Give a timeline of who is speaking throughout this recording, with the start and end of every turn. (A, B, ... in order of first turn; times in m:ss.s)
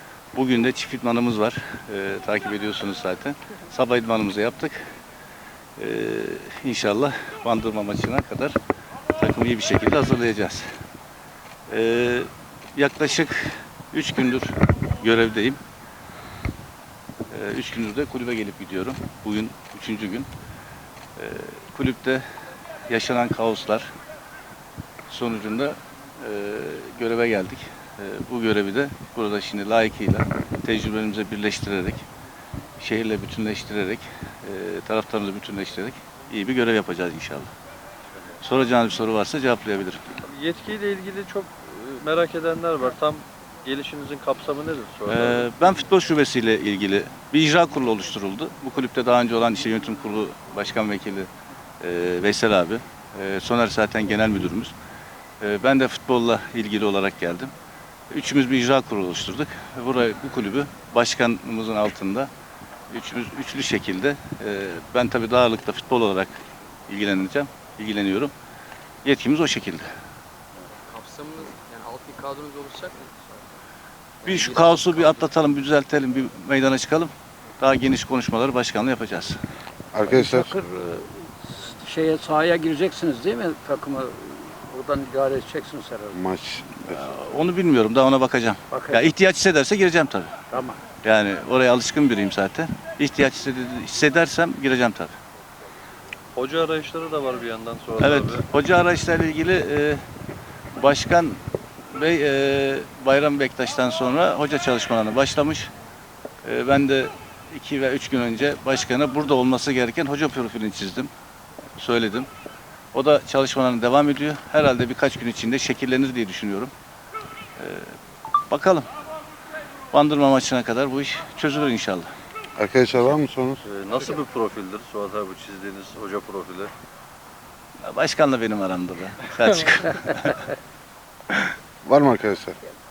0:00.3-0:04.8 A
0:05.8-0:08.6 A
0:09.2-0:10.7 A
0:11.7-0:15.6 A
0:17.3-0:20.3 A
0:21.2-0:22.2 A
0:22.9-0:23.9 A
0:25.1-0:32.0 A
0:32.8-0:37.5 A
0:38.4-0:40.0 A
0:40.3-0:45.5 B
0:45.1-0:51.3 A
0:51.8-0:54.7 A
0:55.4-0:57.5 A
0:58.1-1:02.3 A
1:02.9-1:06.3 A
1:06.9-1:08.3 A
1:09.0-1:09.9 A
1:10.9-1:13.3 C
1:14.2-1:19.4 A
1:14.2-1:15.2 C
1:19.9-1:20.5 D
1:20.1-1:26.2 E
1:26.1-1:27.1 D
1:26.8-1:30.4 A
1:28.7-1:29.1 E
1:30.5-1:30.8 E
1:31.0-1:35.1 A
1:36.4-1:38.4 B
1:38.0-1:40.0 A
1:40.8-1:45.7 A
1:46.4-1:51.1 A
1:51.8-1:52.3 A
1:52.9-1:56.7 A
1:57.6-1:58.0 A
1:58.5-1:58.9 A
1:59.9-2:02.1 A
2:02.6-2:03.6 D
2:03.6-2:06.7 B
2:07.8-2:10.5 A
2:11.8-2:12.6 D